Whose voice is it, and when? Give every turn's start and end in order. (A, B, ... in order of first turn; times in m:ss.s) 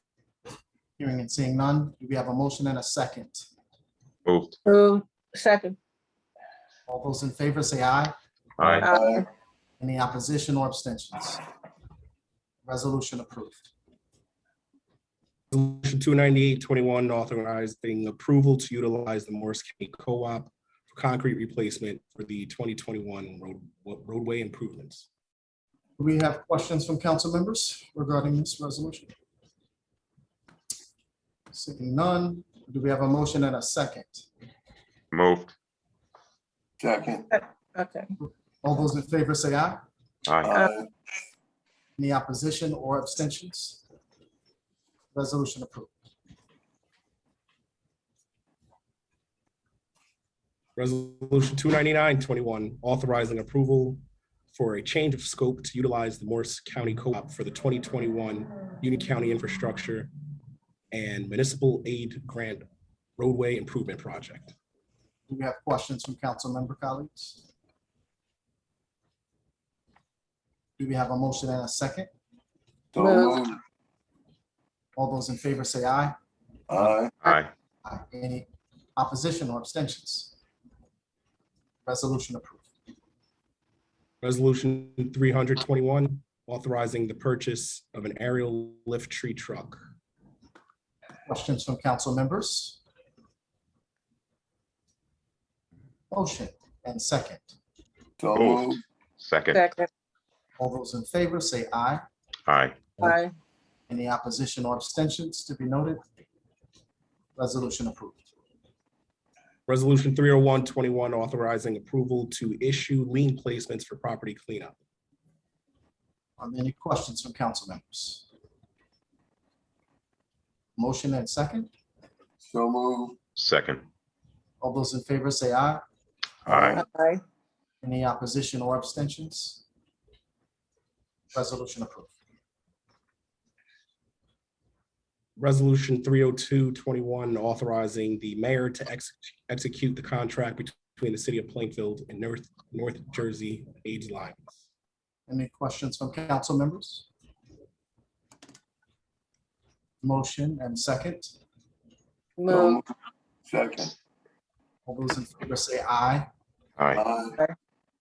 0:01.0-0:03.5 A
0:04.2-0:04.6 B
0:04.6-0:05.8 C
0:06.9-0:08.1 A
0:08.6-0:08.9 B
0:08.7-0:09.1 C
0:08.8-0:09.3 D
0:09.8-0:11.4 A
0:12.6-0:13.7 A
0:15.5-0:25.1 E
0:26.0-0:29.1 A
0:31.5-0:34.3 A
0:35.1-0:35.5 B
0:36.8-0:37.3 D
0:37.3-0:38.1 C
0:38.6-0:39.8 A
0:40.3-0:40.6 B
0:40.4-0:40.9 D
0:42.0-0:43.8 A
0:45.1-0:45.9 A
0:50.8-0:54.0 E
0:54.5-1:00.1 E
1:00.9-1:02.7 E
1:03.2-1:04.5 E
1:05.3-1:07.4 A
1:10.8-1:12.1 A
1:12.9-1:13.6 D
1:13.0-1:13.4 C
1:15.0-1:16.2 A
1:16.7-1:17.2 D
1:17.2-1:17.5 B
1:17.8-1:20.3 A
1:21.8-1:22.6 A
1:24.2-1:29.8 E
1:31.3-1:32.8 A
1:36.1-1:37.5 A
1:38.2-1:38.8 D
1:38.3-1:39.7 B
1:39.5-1:39.9 C
1:40.6-1:42.0 A
1:42.5-1:42.9 B
1:43.0-1:43.3 C
1:43.9-1:46.0 A
1:47.4-1:48.2 A
1:49.7-1:54.8 E
1:56.4-1:58.2 A
2:00.8-2:01.7 A
2:02.4-2:03.2 D
2:03.4-2:03.8 B
2:04.6-2:05.8 A
2:06.5-2:06.8 B
2:06.6-2:07.2 C
2:07.8-2:09.6 A
2:11.3-2:12.1 A
2:15.4-2:24.5 E
2:25.3-2:27.1 A
2:30.0-2:31.3 A
2:32.4-2:32.8 C
2:32.5-2:32.8 D
2:33.4-2:33.9 D
2:34.9-2:36.3 A
2:36.8-2:37.1 B
2:37.0-2:37.4 D